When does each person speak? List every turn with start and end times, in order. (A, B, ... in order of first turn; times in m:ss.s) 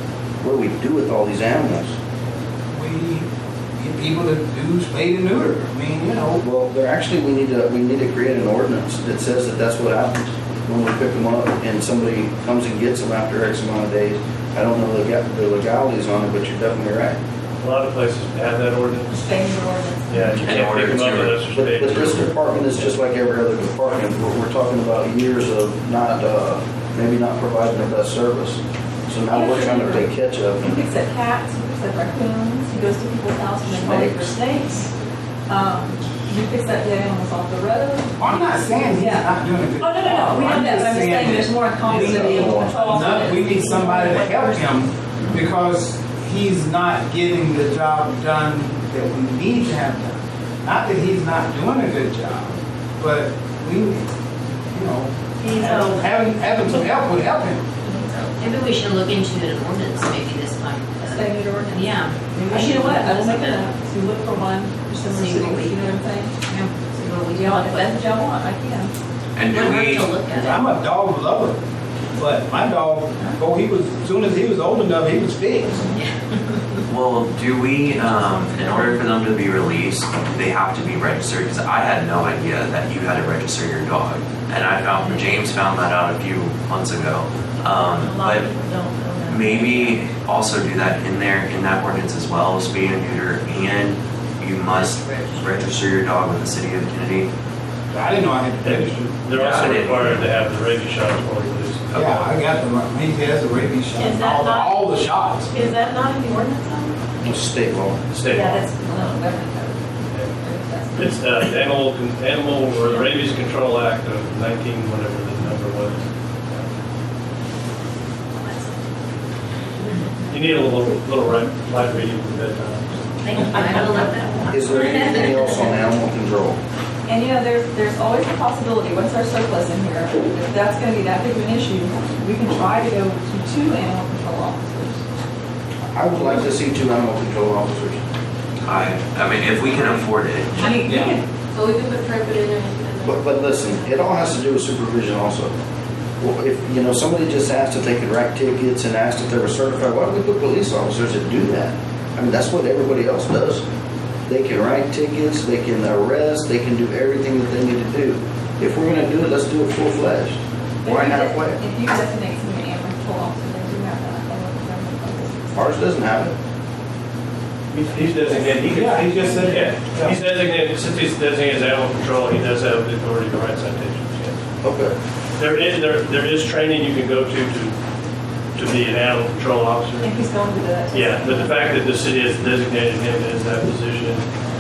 0:00.4-0:02.0 A
0:02.7-0:06.4 B
0:06.4-0:17.2 A
0:17.6-0:19.2 C
0:19.1-0:20.3 D
0:20.1-0:22.3 C
0:20.3-0:21.4 E
0:21.5-0:30.8 A
0:21.9-0:22.3 E
0:29.3-0:30.1 D
0:30.6-0:34.9 D
0:33.7-0:34.3 A
0:35.5-0:44.6 D
0:38.2-0:54.1 B
0:41.9-0:43.3 A
0:54.7-0:57.6 B
0:58.0-1:03.7 F
1:01.0-1:06.4 D
1:05.1-1:05.8 F
1:06.4-1:07.9 F
1:07.3-1:08.9 D
1:09.4-1:10.1 E
1:09.5-1:10.6 F
1:09.9-1:11.6 B
1:12.2-1:15.9 B
1:16.9-1:28.5 E
1:29.3-1:37.3 E
1:37.9-1:39.2 B
1:38.6-1:41.9 C
1:39.3-1:40.3 E
1:41.9-1:42.3 E
1:42.0-1:45.7 B
1:47.2-1:48.0 A
1:48.1-1:48.7 C
1:48.3-1:51.1 D
1:51.0-1:56.7 C
2:00.3-2:03.5 C
2:03.2-2:05.5 F
2:04.5-2:06.6 A
2:07.1-2:15.0 D
2:15.9-2:18.0 A
2:18.6-2:20.6 E
2:20.6-2:21.2 D
2:20.8-2:21.2 B
2:21.5-2:24.3 G
2:23.0-2:25.5 A
2:26.2-2:33.6 A
2:34.3-2:41.6 A
2:40.8-2:45.8 D
2:45.5-2:46.3 A
2:47.7-2:54.4 C
2:48.4-2:50.2 B
2:54.6-2:55.0 A
2:55.4-2:57.8 C
2:58.6-3:00.1 C
3:00.0-3:01.6 D
3:00.9-3:04.3 C